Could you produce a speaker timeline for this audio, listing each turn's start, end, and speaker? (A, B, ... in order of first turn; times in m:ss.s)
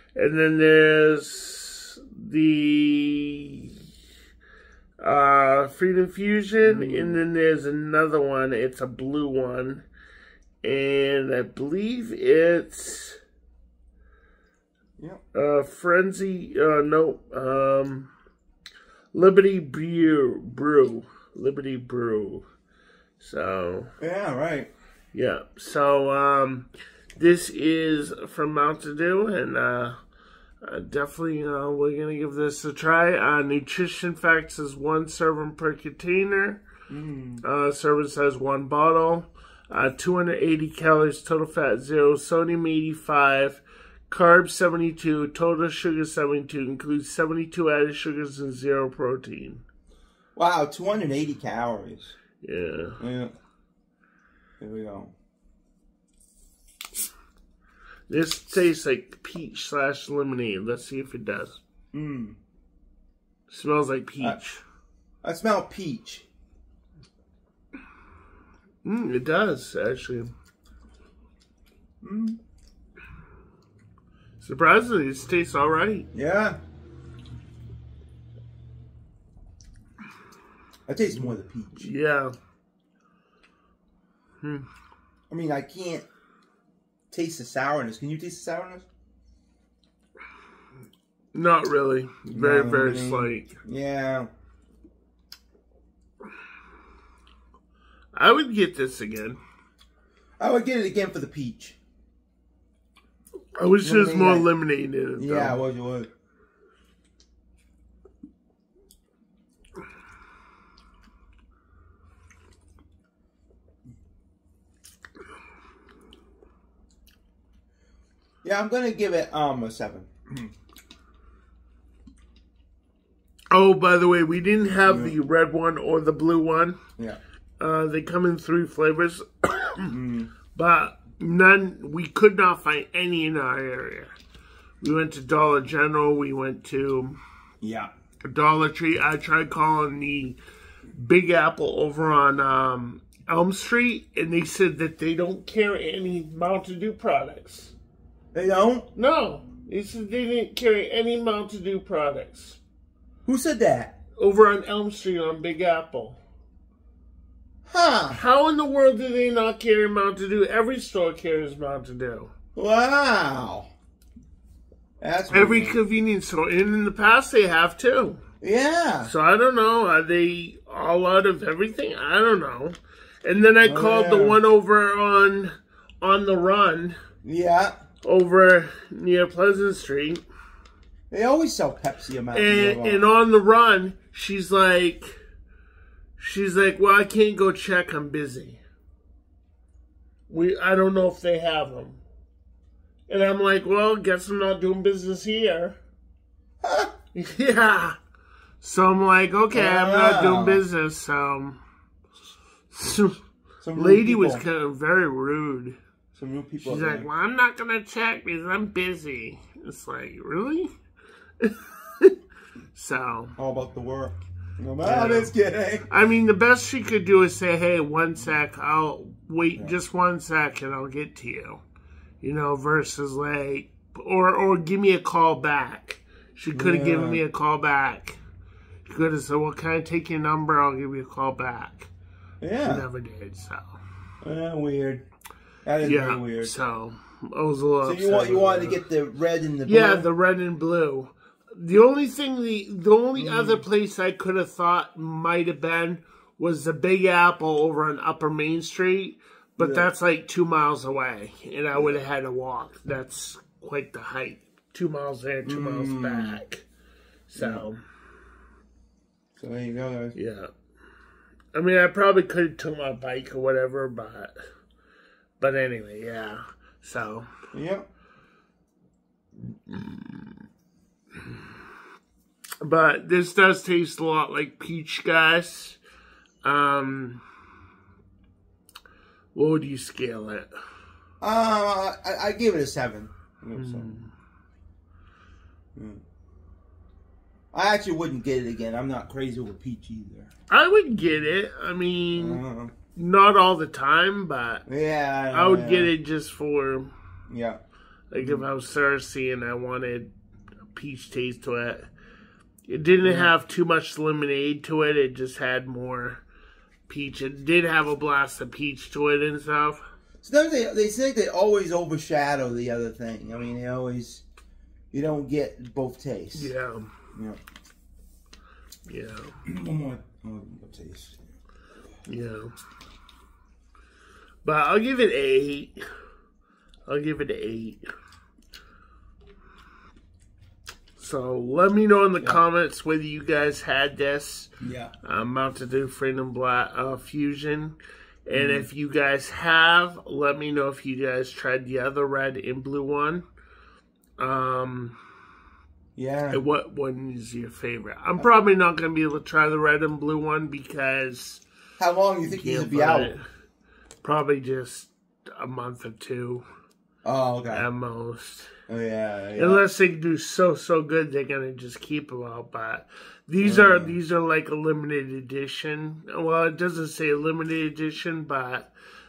0:00.1-0:03.8 A
0:05.0-0:09.8 A
0:06.6-0:07.2 B
0:10.6-0:13.2 A
0:15.3-0:18.1 A
0:19.1-0:22.4 A
0:23.2-0:23.9 A
0:24.0-0:24.7 B
0:25.1-0:29.9 A
0:30.6-0:36.6 A
0:36.9-0:37.4 B
0:37.4-0:49.6 A
0:50.4-0:52.1 B
0:52.4-0:53.0 A
0:53.0-0:53.3 B
0:54.6-0:55.1 B
0:58.1-1:01.6 A
1:01.9-1:02.4 B
1:03.5-1:04.6 A
1:05.2-1:06.2 B
1:08.8-1:10.3 A
1:12.0-1:12.4 B
1:14.4-1:16.1 A
1:16.1-1:16.6 B
1:20.9-1:21.9 B
1:21.8-1:22.3 A
1:24.4-1:24.7 A
1:25.3-1:26.0 B
1:27.1-1:28.9 B
1:31.3-1:33.6 A
1:32.3-1:34.3 B
1:38.1-1:39.4 A
1:40.4-1:41.8 B
1:43.6-1:45.6 A
1:43.8-1:44.5 B
1:45.2-1:46.1 B
1:58.4-2:00.4 B
2:03.5-2:06.8 A
2:04.8-2:05.2 B
2:07.6-2:10.0 A
2:09.9-2:10.3 B
2:10.5-2:14.1 A
2:14.8-2:17.2 A
2:17.6-2:17.9 B
2:18.2-2:20.4 A
2:20.9-2:27.7 A
2:28.3-2:28.9 B
2:29.0-2:32.6 A
2:33.2-2:34.0 B
2:34.2-2:36.2 A
2:37.7-2:38.2 B
2:38.1-2:42.3 A
2:42.6-2:43.7 B
2:45.0-2:45.8 B
2:45.3-2:48.2 A
2:48.4-2:49.1 B
2:49.0-2:57.0 A
2:53.6-2:54.4 B
2:57.2-2:57.8 B
2:58.0-3:00.2 A
3:01.1-3:03.0 B
3:02.3-3:05.2 A
3:06.2-3:08.6 A
3:10.3-3:12.0 A
3:13.1-3:15.8 A
3:16.6-3:16.9 B
3:17.1-3:18.0 A
3:18.6-3:21.6 A
3:19.5-3:20.6 B
3:22.7-3:23.2 A
3:23.6-3:24.4 B
3:23.7-3:25.8 A
3:26.1-3:27.1 B
3:26.6-3:30.7 A
3:31.4-3:32.2 A
3:32.7-3:33.4 A
3:33.4-3:35.9 B
3:34.8-3:35.3 A
3:35.9-3:41.6 A
3:42.2-3:48.2 A
3:46.5-3:47.2 B
3:48.8-3:51.9 A
3:52.4-3:52.8 B
3:52.6-3:53.8 A
3:54.2-3:55.0 B
3:55.6-3:56.6 B
3:55.8-3:58.8 A
3:57.8-4:00.1 B
3:59.6-4:16.6 A
4:03.1-4:03.6 B
4:09.6-4:09.9 B
4:11.7-4:12.0 B
4:15.4-4:16.4 B
4:17.3-4:17.8 A
4:17.4-4:17.6 B
4:19.4-4:20.2 B
4:20.1-4:20.5 A
4:21.5-4:24.3 A
4:25.4-4:27.3 A
4:27.5-4:27.8 B
4:29.7-4:30.2 A
4:32.6-4:35.8 A
4:36.4-4:37.2 A
4:39.3-4:40.5 A
4:41.2-4:43.9 B
4:43.6-4:44.1 A
4:45.7-4:46.0 B
4:47.5-4:50.3 B
4:50.5-4:52.4 A
4:52.1-4:52.7 B
4:52.9-4:54.6 A
4:54.7-4:55.9 B
4:55.3-4:56.9 A
4:57.3-4:57.6 B
4:58.1-5:00.1 A
4:58.2-4:58.5 B
5:00.7-5:01.8 A
5:02.7-5:06.2 A
5:03.0-5:03.3 B
5:06.9-5:09.8 A
5:10.2-5:14.2 B
5:14.9-5:16.5 B
5:16.3-5:16.9 A
5:18.9-5:19.4 A
5:19.4-5:21.2 B
5:22.0-5:22.5 A
5:24.4-5:25.8 A
5:26.8-5:27.8 A
5:31.0-5:34.5 A
5:34.6-5:34.9 B
5:35.0-5:37.8 A
5:38.3-5:43.2 A
5:38.3-5:38.7 B
5:44.2-5:45.0 A
5:46.0-5:46.4 B
5:46.3-5:51.4 A
5:51.8-5:53.1 B
5:52.2-5:53.2 A
5:54.0-5:56.4 A
5:57.0-5:57.7 B
5:57.5-5:58.5 A
5:58.7-5:59.6 B
5:59.4-6:08.7 A
6:03.4-6:04.0 B